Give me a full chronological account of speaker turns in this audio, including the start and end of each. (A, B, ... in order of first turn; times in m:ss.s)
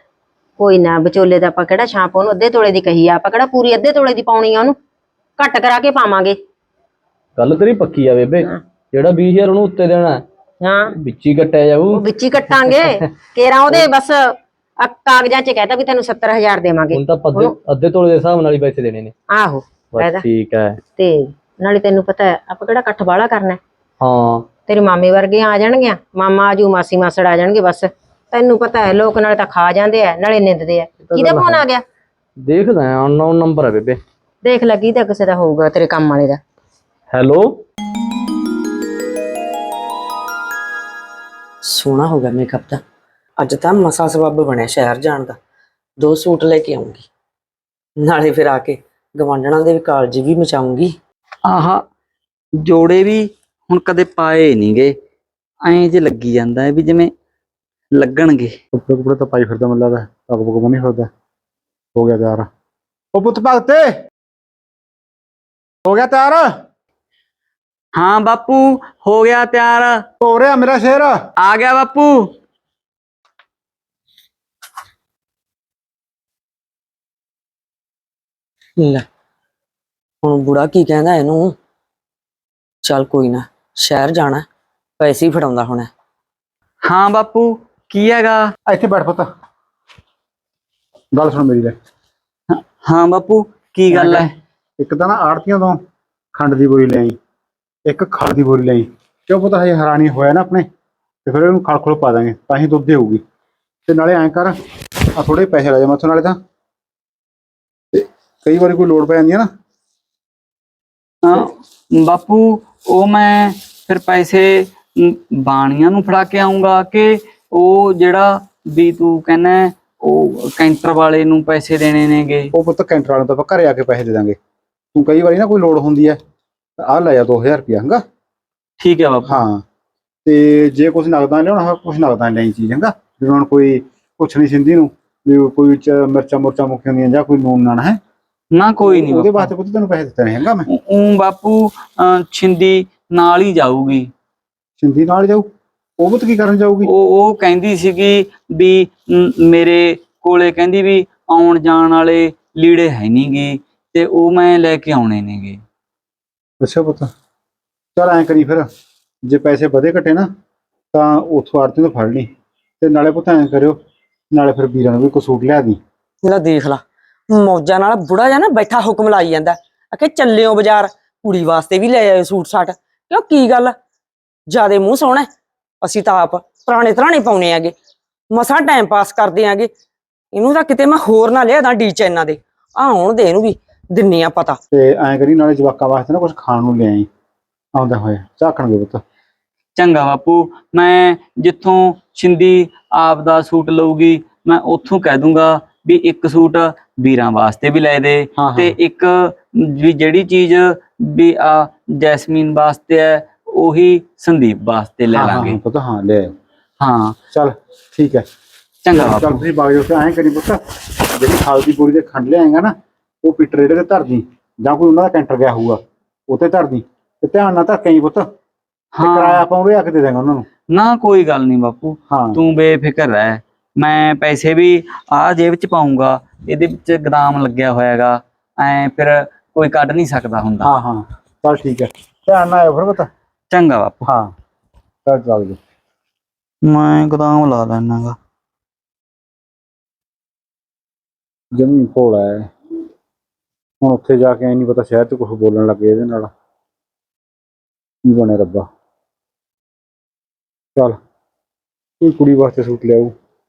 0:00.6-0:04.7 A
0:05.4-0:06.4 A
0:07.4-0:10.2 B
0:10.6-0:10.9 A
0:11.0-0:12.0 B
0:11.9-0:17.5 A
0:16.9-0:19.1 B
0:19.3-0:20.2 A
0:19.8-0:20.8 B
0:21.0-0:23.6 A
0:24.0-0:24.4 B
0:24.7-0:31.8 A
0:31.0-0:31.6 B
0:32.4-0:34.0 B
0:34.4-0:36.4 A
0:37.1-0:37.6 B
0:41.6-0:42.8 C
0:43.4-0:45.4 C
0:46.0-0:47.1 C
0:48.0-0:51.0 C
0:51.4-0:51.8 D
0:52.6-0:54.9 D
0:55.6-0:57.1 D
0:58.0-0:58.5 D
0:58.7-1:01.1 E
1:01.9-1:02.5 E
1:03.1-1:03.9 E
1:05.8-1:06.5 E
1:08.0-1:10.0 D
1:10.2-1:11.2 E
1:11.4-1:12.3 D
1:20.4-1:21.5 F
1:22.8-1:24.4 F
1:23.0-1:24.1 C
1:25.0-1:25.9 F
1:26.8-1:28.5 D
1:28.7-1:29.2 E
1:31.1-1:31.7 E
1:32.5-1:34.3 D
1:33.9-1:34.2 E
1:34.8-1:35.8 E
1:36.3-1:37.2 E
1:37.8-1:40.6 E
1:41.2-1:43.2 E
1:43.9-1:44.6 E
1:45.1-1:46.4 E
1:47.9-1:49.5 E
1:51.2-2:02.5 D
2:02.5-2:04.4 E
2:04.9-2:06.2 E
2:06.8-2:08.0 E
2:08.8-2:09.4 D
2:09.2-2:09.6 E
2:10.2-2:18.0 E
2:18.5-2:19.5 D
2:18.8-2:20.7 E
2:20.7-2:24.1 D
2:24.8-2:25.5 E
2:26.0-2:26.9 E
2:26.8-2:35.6 D
2:36.6-2:37.1 E
2:38.0-2:38.7 E
2:39.2-2:40.3 E
2:40.9-2:42.3 E
2:42.8-2:43.8 E
2:44.3-2:45.8 E
2:46.2-2:53.8 F
2:54.5-2:55.3 F
2:55.8-2:57.7 F
2:58.3-2:59.7 F
3:00.3-3:04.6 F
3:04.7-3:07.1 E
3:07.7-3:09.0 E
3:09.8-3:25.6 D
3:18.4-3:18.8 E
3:25.1-3:26.3 E
3:26.8-3:27.2 D
3:27.3-3:28.2 E
3:28.8-3:29.4 D
3:28.9-3:30.6 E
3:31.1-3:38.3 E
3:39.0-3:39.4 D
3:39.0-3:40.4 E
3:40.7-3:50.7 D
3:42.1-3:42.4 E
3:50.6-3:53.1 E
3:53.5-3:54.0 D
3:54.0-3:54.3 E
3:55.0-3:55.6 E
3:56.7-3:58.2 D
4:01.5-4:02.5 E
4:03.8-4:06.3 E
4:08.0-4:08.7 E
4:12.0-4:13.1 E